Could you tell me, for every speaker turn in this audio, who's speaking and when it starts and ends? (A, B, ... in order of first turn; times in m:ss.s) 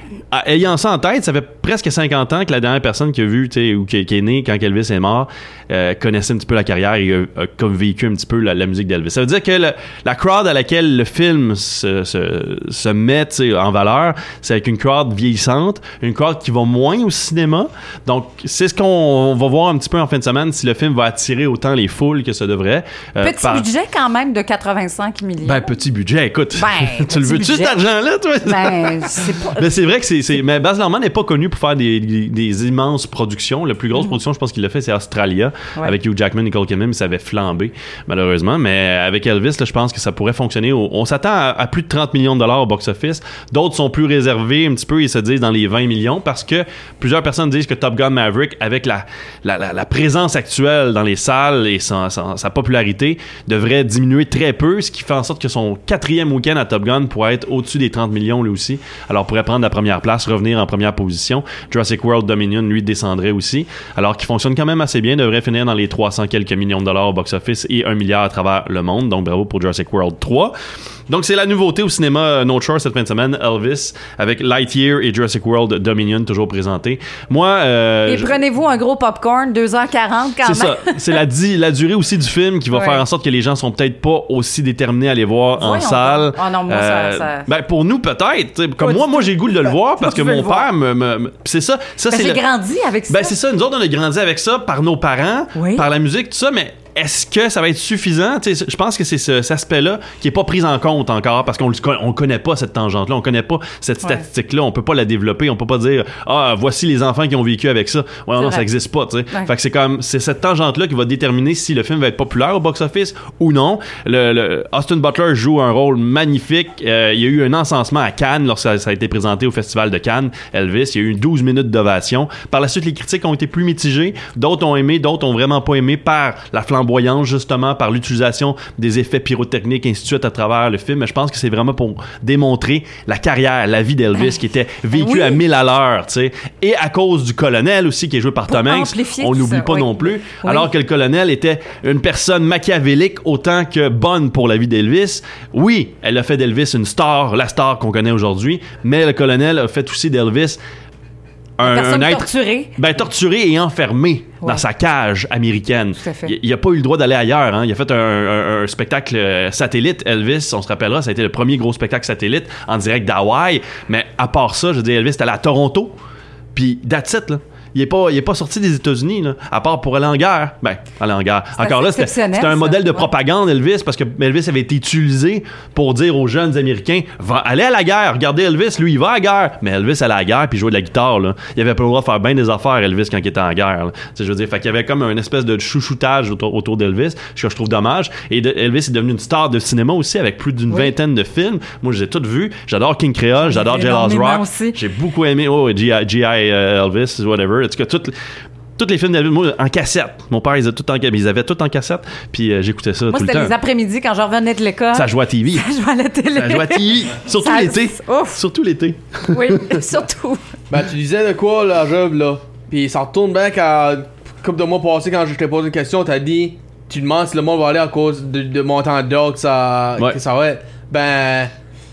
0:00.3-0:23.7 A
0:23.2-0:25.7 B
0:25.4-1:10.5 A
0:26.5-0:27.8 B
0:28.4-0:29.7 B
1:11.1-1:18.4 A
1:18.1-1:21.0 B
1:20.4-1:32.5 A
1:22.7-1:23.0 B
1:25.6-1:27.5 B
1:28.8-1:30.7 B
1:32.1-1:33.3 B
1:33.1-2:30.6 A
1:35.6-1:35.9 B
1:48.4-1:48.7 B
2:14.9-2:15.4 B
2:18.5-2:20.7 B
2:31.6-2:46.0 A
2:31.6-2:32.7 B
2:36.0-2:36.3 B
2:46.5-3:18.2 A
2:51.6-2:53.1 B
3:13.4-3:14.8 B
3:18.8-3:23.6 A
3:23.1-3:28.4 B
3:24.9-3:25.7 A
3:26.4-3:29.9 A
3:29.3-3:30.4 B
3:30.7-3:41.5 C